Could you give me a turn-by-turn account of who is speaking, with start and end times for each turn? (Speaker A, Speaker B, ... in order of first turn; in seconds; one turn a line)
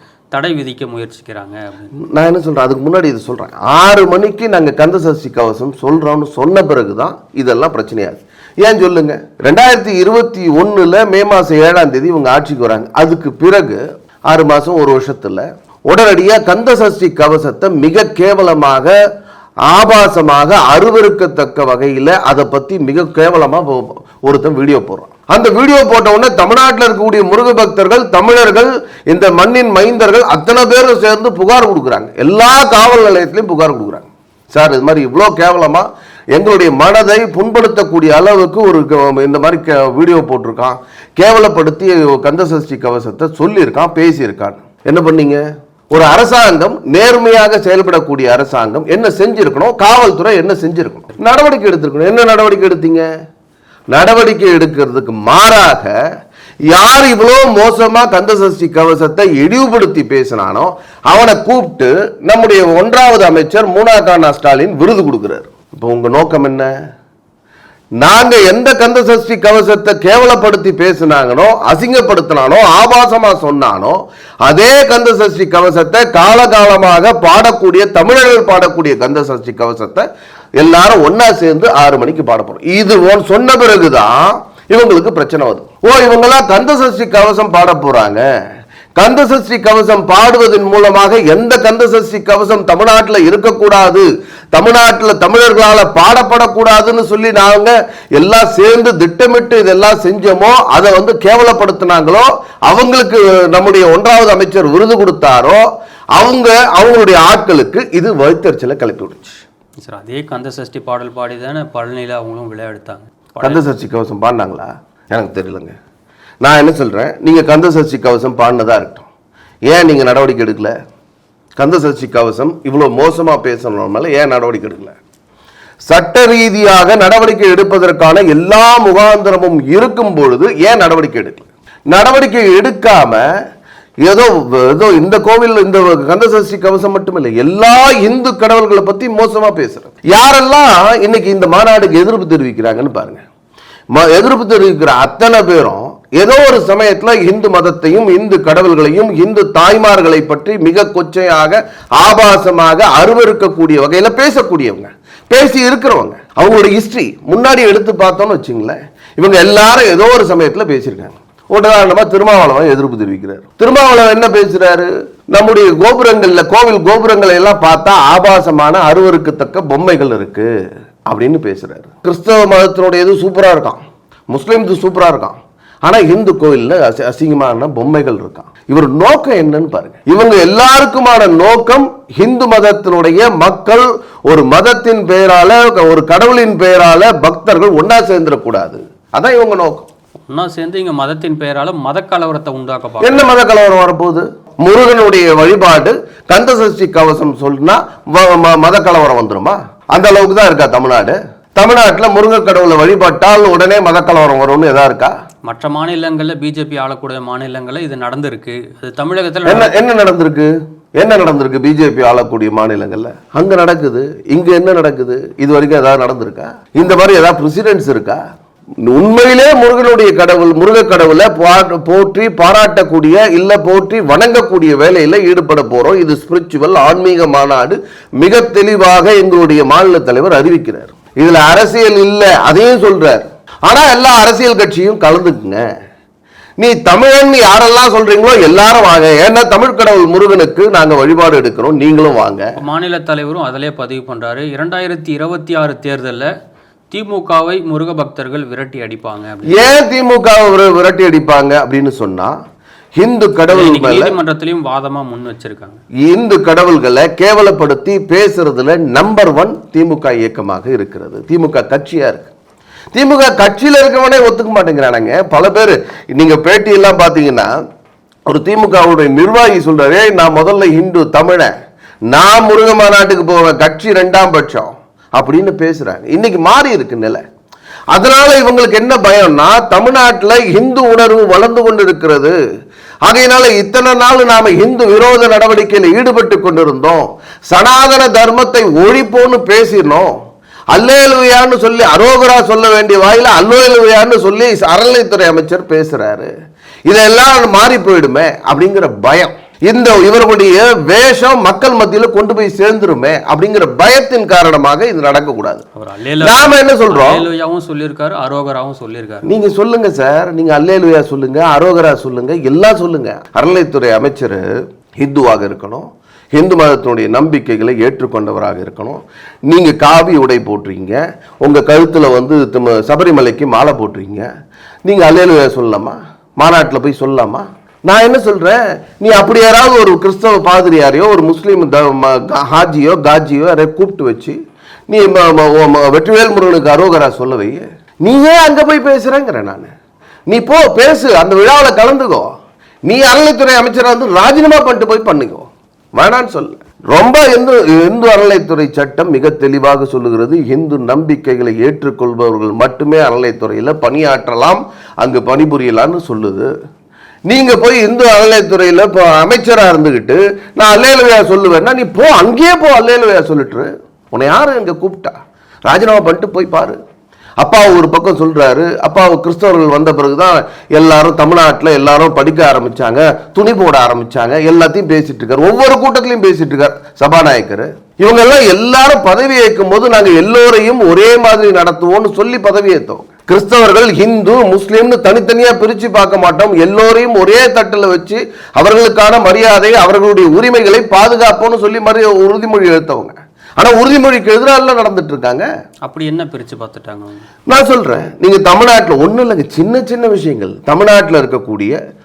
Speaker A: 0.3-1.9
Speaker B: 2.0-18.9
Speaker B: 19.7-53.1
Speaker B: 53.9-56.0
Speaker B: 56.7-66.7
Speaker B: 68.0-80.0
Speaker B: 80.6-88.2
Speaker B: 89.0-105.6
Speaker B: 106.1-109.4
Speaker A: 109.8-113.6
Speaker B: 113.4-115.7
Speaker B: 116.4-119.0
Speaker B: 119.7-120.8
Speaker B: 121.6-125.0
Speaker B: 125.8-133.2
Speaker B: 134.0-143.2
Speaker B: 143.9-170.5
Speaker B: 171.1-189.9
Speaker A: 190.3-193.3
Speaker B: 193.0-205.1
Speaker A: 205.5-209.7
Speaker B: 209.5-218.2
Speaker B: 218.8-235.6
Speaker B: 236.6-242.5
Speaker A: 242.6-246.3
Speaker A: 246.9-249.7
Speaker B: 249.5-252.3
Speaker B: 253.0-254.2
Speaker A: 253.5-255.8
Speaker B: 256.1-262.3
Speaker B: 262.9-267.5
Speaker B: 268.3-271.5
Speaker B: 272.1-277.2
Speaker B: 277.9-282.4
Speaker B: 283.1-290.1
Speaker B: 290.7-296.3
Speaker B: 296.9-305.6
Speaker A: 305.8-309.3
Speaker B: 306.2-307.3
Speaker B: 309.3-314.5
Speaker B: 315.0-324.3
Speaker B: 324.9-334.4
Speaker B: 334.9-339.7
Speaker B: 340.3-342.3
Speaker B: 342.9-356.5
Speaker B: 357.3-366.8
Speaker B: 367.4-395.4
Speaker A: 395.9-397.2
Speaker B: 397.5-401.8